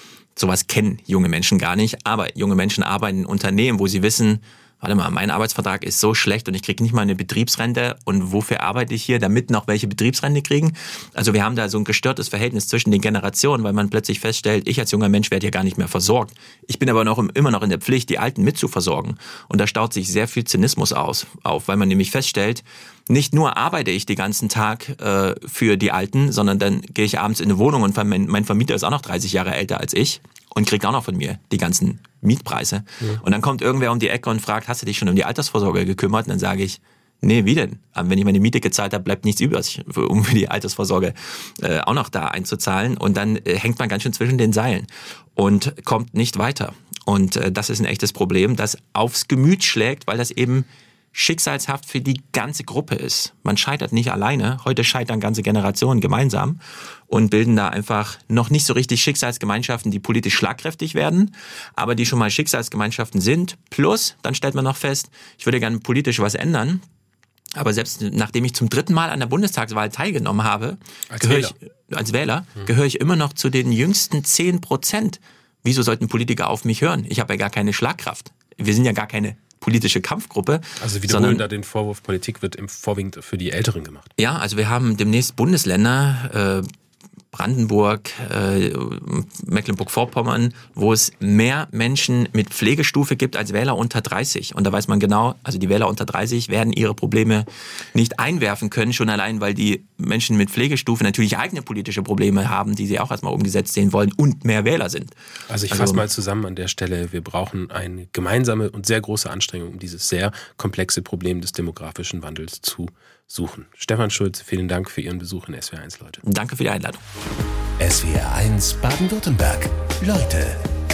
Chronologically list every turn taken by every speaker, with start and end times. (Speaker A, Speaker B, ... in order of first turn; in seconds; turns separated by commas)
Speaker A: 0.4-66.8, Speaker A: 67.5-81.5, Speaker B: 71.1-71.5, Speaker B: 80.8-84.1, Speaker A: 84.2-86.7, Speaker A: 87.3-105.1, Speaker B: 105.5-116.2, Speaker A: 105.7-106.0, Speaker A: 116.2-117.0, Speaker C: 117.8-120.6